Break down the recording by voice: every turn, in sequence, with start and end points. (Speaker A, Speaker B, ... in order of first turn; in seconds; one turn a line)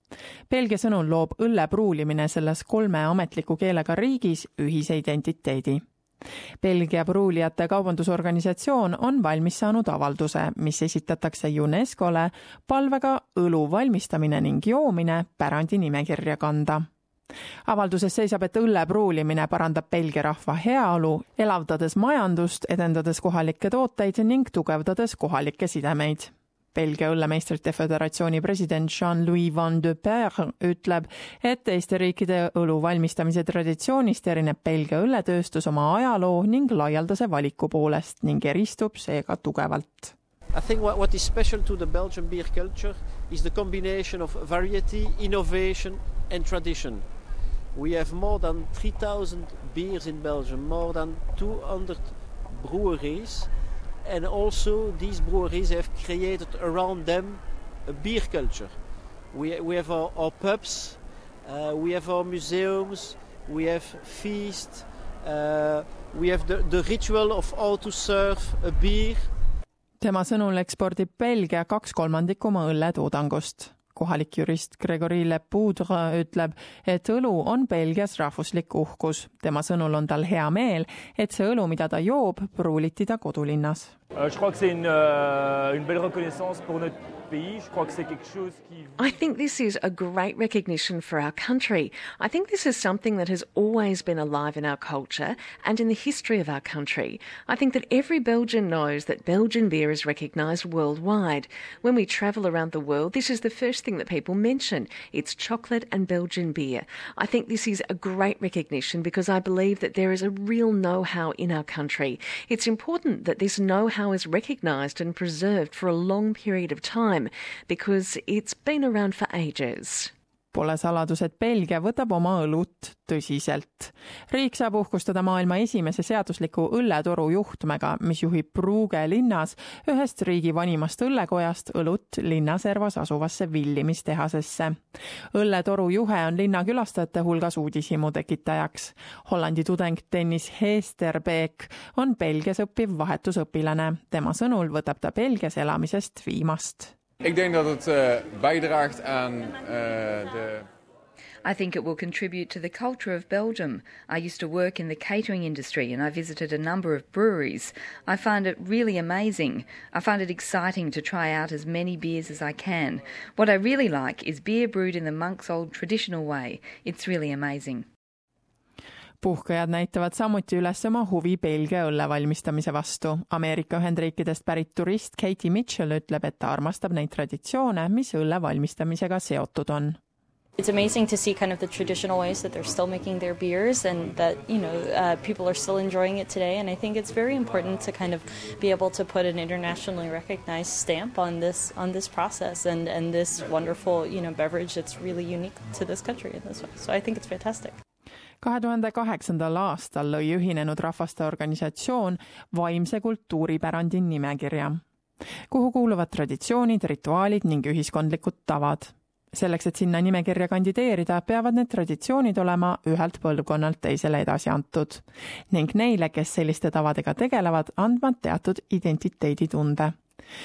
Speaker A: 0.5-5.8
Speaker A: 6.6-16.9
Speaker A: 17.7-40.1
Speaker B: 40.5-47.2
Speaker B: 47.7-53.5
Speaker B: 54.0-58.8
Speaker B: 59.3-69.3
Speaker A: 70.0-84.0
Speaker C: 84.2-89.1
Speaker D: 89.0-120.1
Speaker A: 120.5-134.8
Speaker A: 135.3-146.9
Speaker E: 147.2-150.7
Speaker F: 151.4-167.8
Speaker A: 169.2-180.0
Speaker G: 180.6-197.8
Speaker A: 198.4-204.8
Speaker A: 205.5-220.0